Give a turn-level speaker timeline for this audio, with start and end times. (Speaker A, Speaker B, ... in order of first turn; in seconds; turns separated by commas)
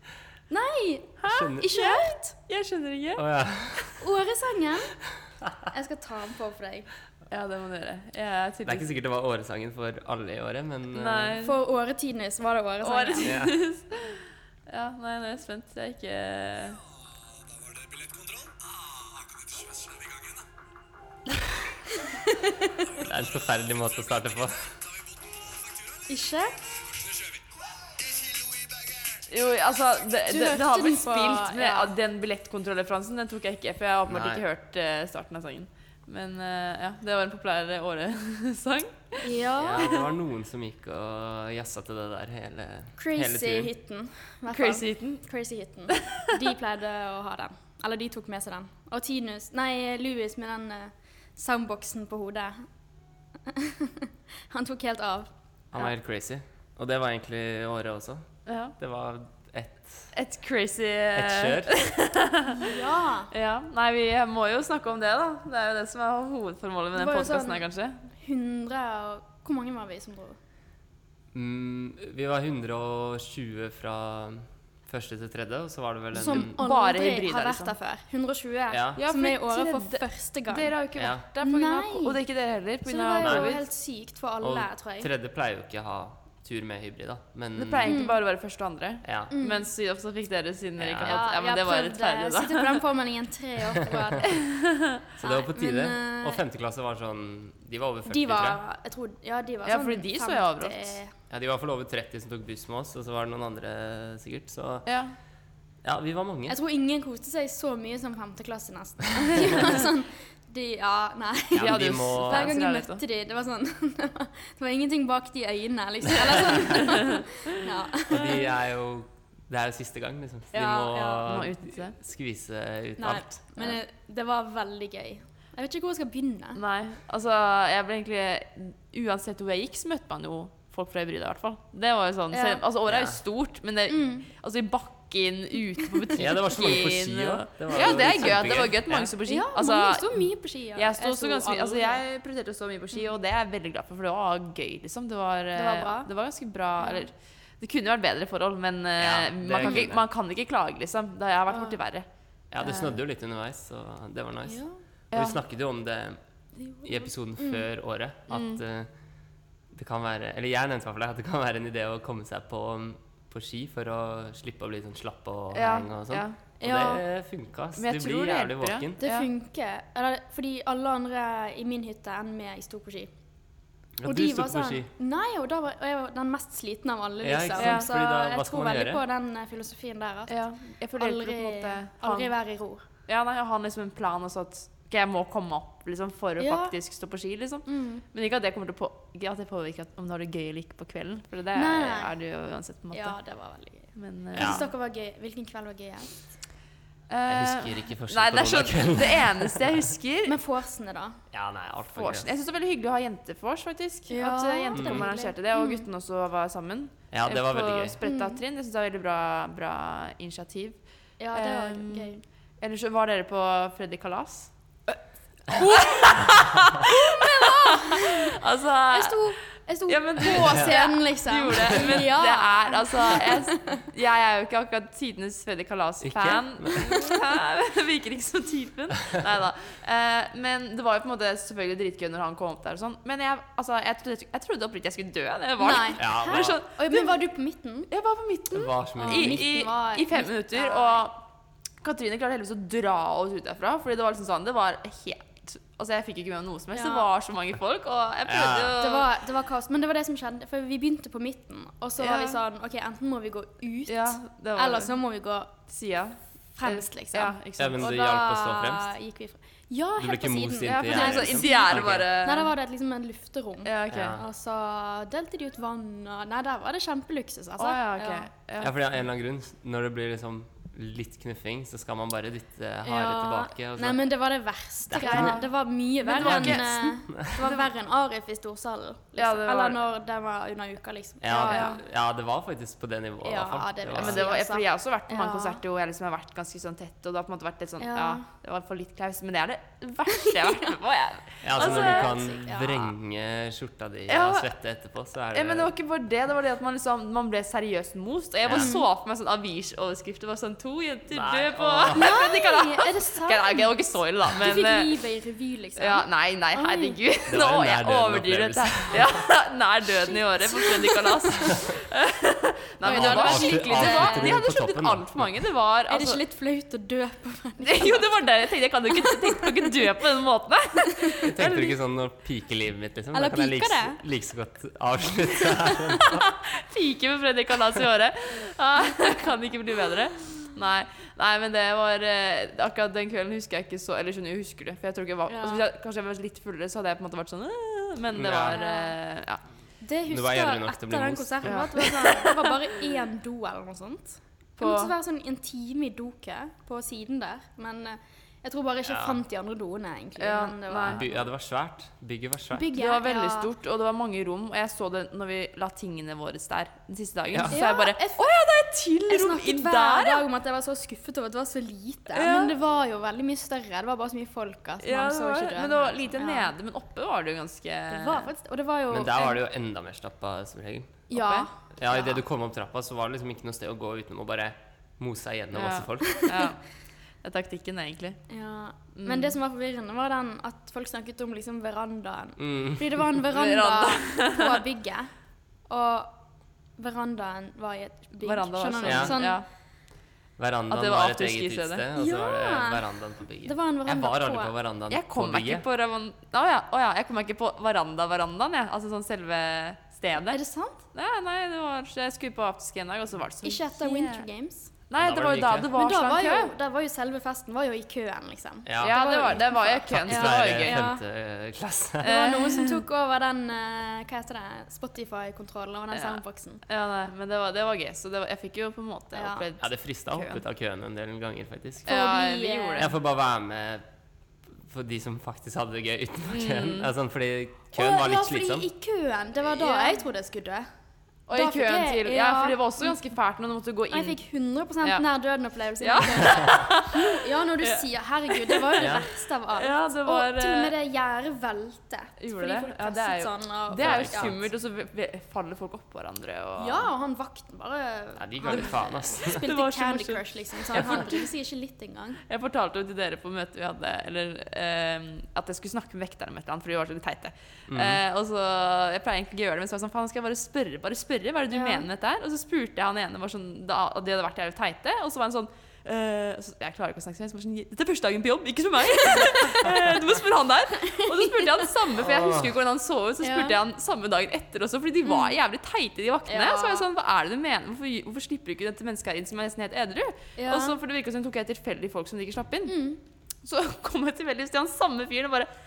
Speaker A: 0.5-2.4, Speaker B: 1.2-3.2, Speaker C: 1.3-1.7, Speaker C: 3.2-4.0, Speaker A: 4.0-4.9, Speaker A: 5.7-6.9, Speaker B: 7.3-8.9, Speaker C: 8.7-11.3, Speaker B: 10.9-11.6, Speaker A: 11.4-13.3, Speaker B: 12.8-16.8, Speaker C: 13.2-13.6, Speaker A: 22.1-22.7, Speaker C: 23.0-24.8, Speaker A: 26.1-26.5, Speaker B: 29.3-40.0, Speaker A: 30.3-31.9, Speaker C: 34.1-34.4, Speaker A: 39.2-39.9, Speaker C: 39.6-43.7, Speaker A: 43.0-52.6, Speaker B: 44.5-45.2, Speaker A: 53.5-55.3, Speaker C: 55.7-58.3, Speaker B: 58.5-58.7, Speaker C: 58.8-60.1, Speaker B: 60.1-62.8, Speaker C: 61.1-61.7, Speaker A: 62.5-63.3, Speaker B: 63.3-68.0, Speaker A: 67.0-70.4, Speaker C: 71.3-76.6, Speaker A: 76.1-80.8, Speaker B: 76.3-77.7, Speaker C: 78.7-79.0, Speaker B: 79.0-83.6, Speaker C: 81.0-81.2, Speaker A: 81.4-82.2, Speaker A: 82.9-85.1, Speaker C: 83.2-83.5, Speaker C: 84.4-88.0, Speaker B: 87.6-92.8, Speaker A: 87.9-88.2, Speaker C: 89.0-89.3, Speaker A: 89.3-89.7, Speaker C: 90.8-91.2, Speaker A: 91.0-94.4, Speaker B: 94.4-94.6, Speaker C: 95.2-98.6, Speaker A: 95.2-96.4, Speaker A: 98.1-101.1, Speaker B: 99.7-101.0, Speaker C: 101.3-104.9, Speaker B: 104.9-105.1, Speaker C: 105.8-106.6, Speaker A: 106.5-118.5, Speaker C: 111.5-112.5, Speaker B: 111.6-113.0, Speaker C: 116.5-116.8, Speaker B: 116.9-117.1, Speaker C: 118.1-123.8, Speaker B: 120.5-122.0, Speaker A: 123.0-126.6, Speaker B: 126.6-140.2, Speaker A: 132.3-132.6, Speaker C: 132.9-133.2, Speaker A: 133.9-134.3, Speaker C: 136.2-139.1, Speaker A: 139.3-142.0, Speaker B: 140.8-152.1, Speaker A: 145.6-146.1, Speaker A: 146.8-147.1, Speaker C: 149.0-150.1, Speaker A: 151.5-151.8, Speaker C: 152.5-156.2, Speaker B: 152.6-153.0, Speaker A: 154.5-154.8, Speaker B: 155.1-155.4, Speaker A: 156.6-157.7, Speaker C: 156.8-158.9, Speaker B: 158.3-158.6, Speaker C: 159.7-169.0, Speaker B: 165.5-166.4, Speaker A: 166.6-167.0, Speaker B: 167.8-169.3, Speaker A: 169.0-173.1, Speaker C: 174.0-174.9, Speaker A: 174.0-180.4, Speaker C: 177.2-179.0, Speaker B: 177.6-177.9, Speaker B: 180.3-182.3, Speaker A: 180.9-182.8, Speaker B: 183.1-193.2, Speaker A: 186.4-186.8, Speaker A: 187.7-188.0, Speaker A: 191.5-192.1, Speaker A: 192.9-196.1, Speaker B: 193.9-194.7, Speaker C: 194.3-194.7, Speaker B: 197.1-200.3, Speaker C: 197.3-199.9, Speaker A: 200.2-201.2, Speaker C: 201.3-202.3, Speaker B: 201.9-210.8, Speaker A: 204.1-205.9, Speaker C: 204.7-205.1, Speaker C: 207.1-208.0, Speaker A: 208.0-208.4, Speaker A: 211.2-212.2, Speaker B: 211.3-215.0, Speaker B: 215.5-219.3, Speaker A: 217.1-218.3, Speaker A: 218.9-223.8, Speaker B: 219.9-237.2, Speaker C: 226.0-227.2, Speaker A: 235.6-237.9, Speaker C: 236.0-236.6, Speaker B: 237.9-241.2, Speaker C: 238.5-239.5, Speaker A: 239.0-241.1, Speaker B: 241.8-249.1, Speaker A: 246.7-247.1, Speaker C: 248.2-248.8, Speaker A: 248.8-255.6, Speaker B: 252.0-252.4, Speaker B: 253.9-254.9, Speaker B: 255.7-257.8, Speaker A: 256.6-268.3, Speaker C: 257.6-258.9, Speaker C: 260.0-262.1, Speaker B: 260.7-262.5, Speaker B: 263.6-264.2, Speaker C: 263.9-264.2, Speaker B: 267.6-268.7, Speaker C: 268.6-274.1, Speaker A: 272.9-281.8, Speaker C: 274.9-275.4, Speaker B: 275.0-275.5, Speaker B: 276.0-277.7, Speaker C: 276.2-276.6, Speaker B: 279.2-279.8, Speaker C: 281.2-284.3, Speaker B: 281.4-281.7, Speaker A: 283.2-285.6, Speaker B: 284.0-292.4, Speaker A: 287.8-288.2, Speaker A: 290.2-290.6, Speaker C: 291.4-295.7, Speaker A: 291.6-292.9, Speaker B: 294.1-294.5, Speaker B: 295.3-305.0, Speaker C: 298.4-298.8, Speaker A: 298.5-298.9, Speaker C: 301.1-302.1, Speaker A: 301.9-303.7, Speaker A: 304.4-307.0, Speaker B: 305.8-316.2, Speaker C: 307.3-309.2, Speaker A: 310.5-311.2, Speaker A: 312.8-314.4, Speaker C: 312.8-315.4, Speaker A: 315.9-318.1, Speaker B: 317.6-321.8, Speaker A: 319.0-319.9, Speaker C: 321.2-326.3, Speaker A: 323.1-324.0, Speaker B: 326.1-339.4, Speaker A: 335.3-335.6, Speaker C: 338.1-338.6, Speaker A: 338.5-338.9, Speaker A: 339.8-351.2, Speaker C: 340.1-341.7, Speaker B: 341.4-342.4, Speaker B: 344.6-344.9, Speaker C: 348.9-349.2, Speaker B: 350.2-351.0, Speaker C: 350.8-352.7, Speaker A: 352.5-353.5, Speaker B: 352.7-360.2, Speaker C: 357.3-357.6, Speaker A: 357.5-358.3, Speaker A: 359.1-366.5, Speaker B: 362.1-362.6, Speaker B: 364.8-368.3, Speaker A: 367.9-369.4, Speaker C: 368.9-371.1, Speaker B: 371.1-371.5, Speaker A: 371.1-372.2, Speaker C: 371.7-376.3, Speaker B: 375.5-376.6, Speaker B: 377.2-378.2, Speaker A: 378.3-385.1, Speaker B: 378.9-379.3, Speaker C: 382.4-383.1, Speaker B: 383.3-384.6, Speaker A: 385.7-386.1, Speaker A: 386.8-389.4, Speaker B: 388.2-389.4, Speaker C: 388.9-389.2, Speaker C: 390.4-395.6, Speaker B: 390.7-391.8, Speaker A: 392.0-392.9, Speaker A: 393.4-394.5, Speaker B: 394.9-400.4, Speaker A: 400.3-400.8, Speaker B: 400.9-404.3, Speaker A: 403.4-404.7, Speaker B: 404.9-406.5, Speaker C: 405.0-405.7, Speaker A: 405.7-411.0, Speaker C: 408.7-412.1, Speaker B: 408.8-410.8, Speaker A: 412.0-416.6, Speaker B: 412.0-412.8, Speaker B: 415.9-420.4, Speaker A: 419.1-419.5, Speaker C: 419.6-421.9, Speaker B: 421.9-422.9, Speaker A: 421.9-422.9, Speaker C: 422.8-423.8, Speaker C: 424.6-428.7, Speaker B: 426.3-426.9, Speaker A: 427.7-430.7, Speaker B: 429.6-430.1, Speaker B: 431.3-434.2, Speaker A: 431.3-433.0, Speaker A: 433.9-444.4, Speaker B: 435.8-439.0, Speaker C: 436.3-436.6, Speaker C: 438.8-439.1, Speaker B: 439.5-440.8, Speaker B: 442.2-446.9, Speaker C: 443.8-444.5, Speaker A: 446.6-452.2, Speaker C: 448.2-449.4, Speaker B: 448.5-451.3, Speaker B: 452.3-482.8, Speaker C: 457.7-458.0, Speaker A: 461.5-461.9, Speaker A: 469.1-469.7, Speaker A: 470.9-471.6, Speaker C: 472.0-472.6, Speaker A: 473.2-473.6, Speaker A: 475.1-475.4, Speaker A: 476.3-476.9, Speaker A: 480.4-480.8, Speaker A: 482.7-483.0, Speaker B: 483.4-485.5